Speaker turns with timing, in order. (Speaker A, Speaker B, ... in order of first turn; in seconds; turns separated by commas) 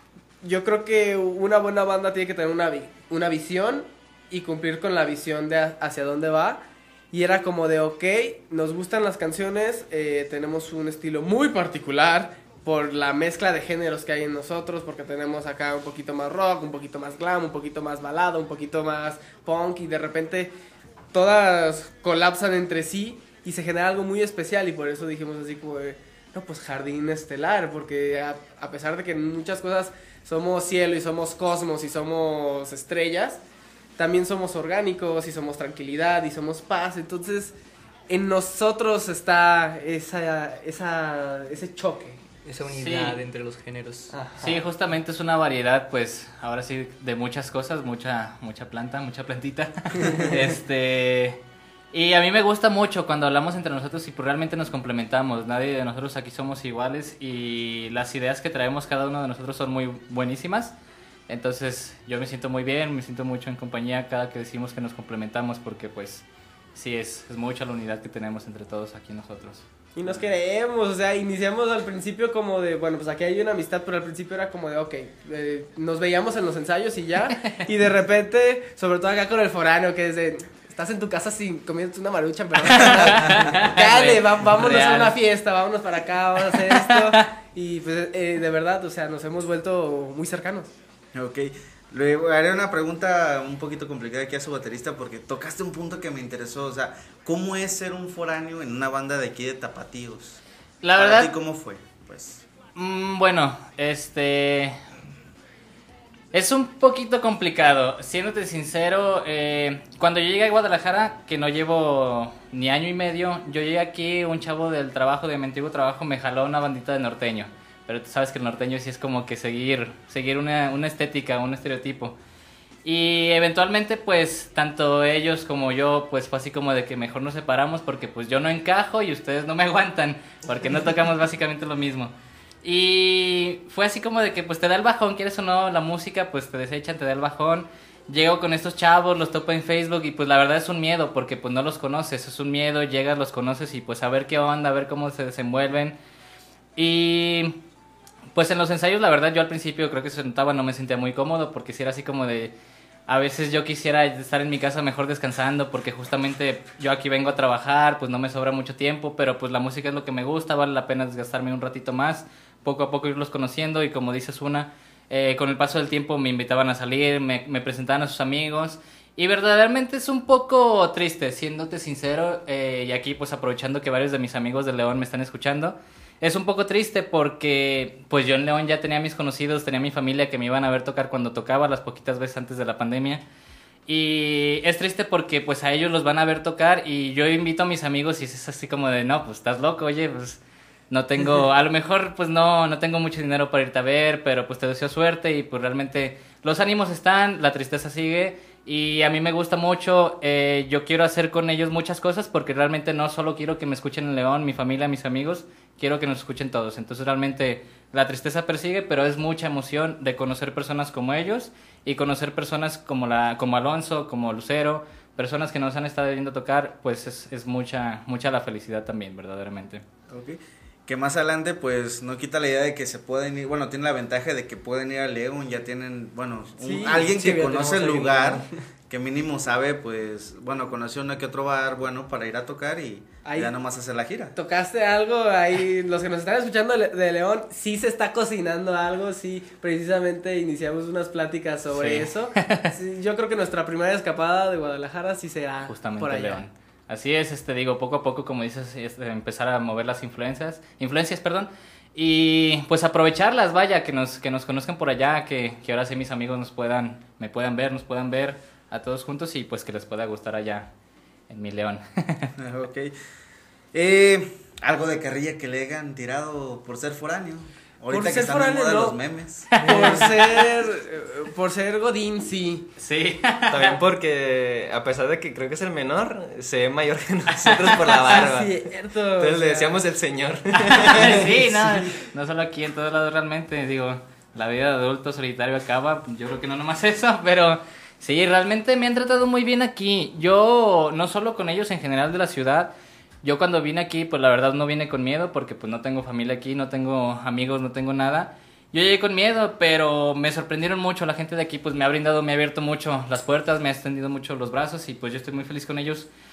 Speaker A: 0.4-20.5, Speaker A: 21.1-33.4, Speaker A: 34.0-37.5, Speaker A: 38.1-42.2, Speaker B: 42.5-44.1, Speaker C: 42.7-43.2, Speaker A: 44.1-44.6, Speaker C: 44.4-51.4, Speaker C: 51.9-60.7, Speaker C: 61.3-70.2, Speaker A: 70.0-90.7, Speaker C: 82.7-85.2, Speaker C: 86.6-87.1, Speaker D: 91.1-100.4, Speaker C: 100.8-101.3, Speaker D: 101.0-102.5, Speaker C: 102.8-104.8, Speaker C: 106.3-122.2, Speaker C: 122.8-146.0, Speaker C: 146.8-147.6, Speaker C: 148.3-152.5, Speaker C: 153.1-183.2, Speaker C: 183.9-219.8, Speaker D: 220.1-234.3, Speaker A: 226.6-227.2, Speaker B: 227.0-228.5, Speaker A: 233.2-233.5, Speaker A: 234.3-246.4, Speaker C: 241.7-242.7, Speaker C: 245.7-260.7, Speaker C: 261.3-262.3, Speaker D: 262.4-262.9, Speaker D: 263.7-269.5, Speaker A: 267.9-269.0, Speaker A: 269.5-272.7, Speaker C: 269.6-270.1, Speaker B: 269.6-270.0, Speaker C: 272.8-273.8, Speaker E: 273.5-278.6, Speaker C: 277.4-278.2, Speaker A: 278.1-279.8, Speaker E: 279.2-281.6, Speaker C: 280.6-306.1